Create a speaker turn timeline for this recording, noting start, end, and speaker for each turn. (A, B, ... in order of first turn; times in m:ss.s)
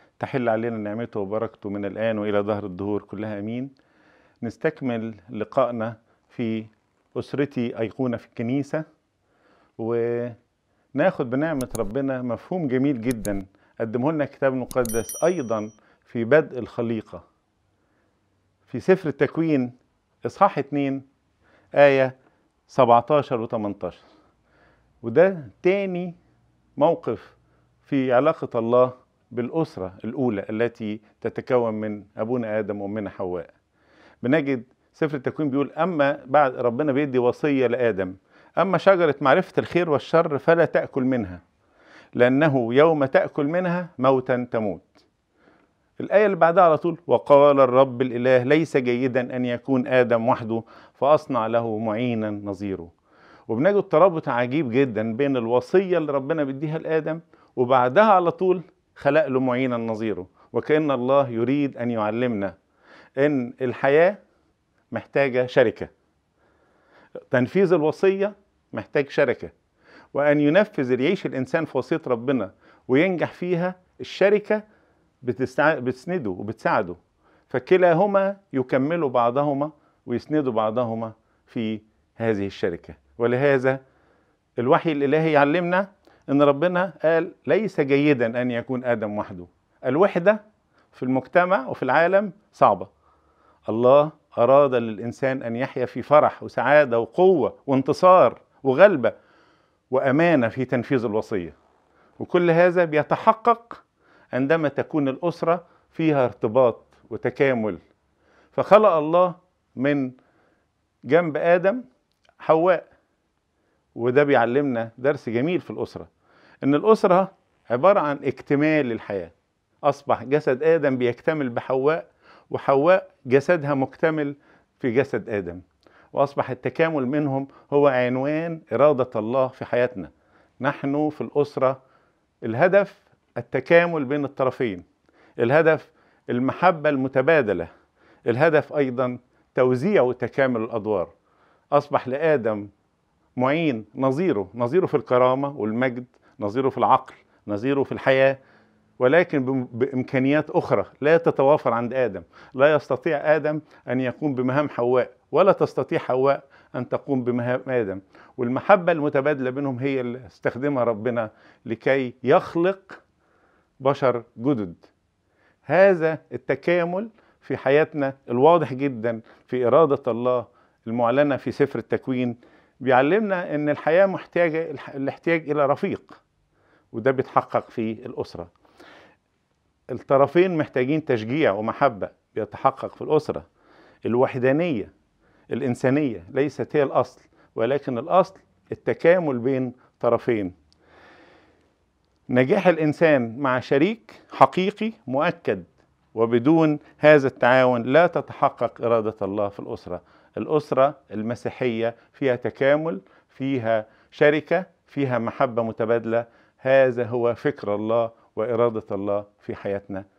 0:00.2-0:03.7 A
0:04.4-0:08.8 A
0:09.8-0:10.4 A
0:11.0-0:17.2 A
0:18.7-0:19.7 A
0:20.2-0:21.0 A
0:21.8-0:22.1 A
0:22.7-0:24.0 A
0:25.0-0:26.2 A
0:26.8-0:33.5 A
0:34.2-0:41.4 A
0:42.2-0:45.0 A
0:46.0-0:52.9 A
0:53.5-1:02.6 A
1:03.2-1:04.2 A
1:04.9-1:05.9 A
1:07.3-1:09.5 A
1:10.1-1:14.6 A
1:15.2-1:23.8 A
1:24.6-1:30.4 A
1:30.9-1:32.9 A
1:33.7-1:39.2 A
1:39.9-1:41.6 A
1:42.2-1:43.8 A
1:44.3-1:47.8 A
1:48.5-1:50.1 A
1:51.1-1:51.8 A
1:52.4-1:52.9 A
1:54.0-1:56.1 A
1:56.6-1:59.3 A
1:59.8-2:05.6 A
2:06.1-2:11.8 A
2:12.4-2:14.8 A
2:15.4-2:17.7 A
2:18.3-2:21.1 A
2:21.7-2:22.7 A
2:23.4-2:28.4 A
2:29.0-2:43.0 A
2:43.8-2:44.9 A
2:45.7-2:56.2 A
2:56.9-2:58.5 A
2:59.9-3:03.4 A
3:04.0-3:04.9 A
3:05.5-3:10.5 A
3:12.3-3:30.0 A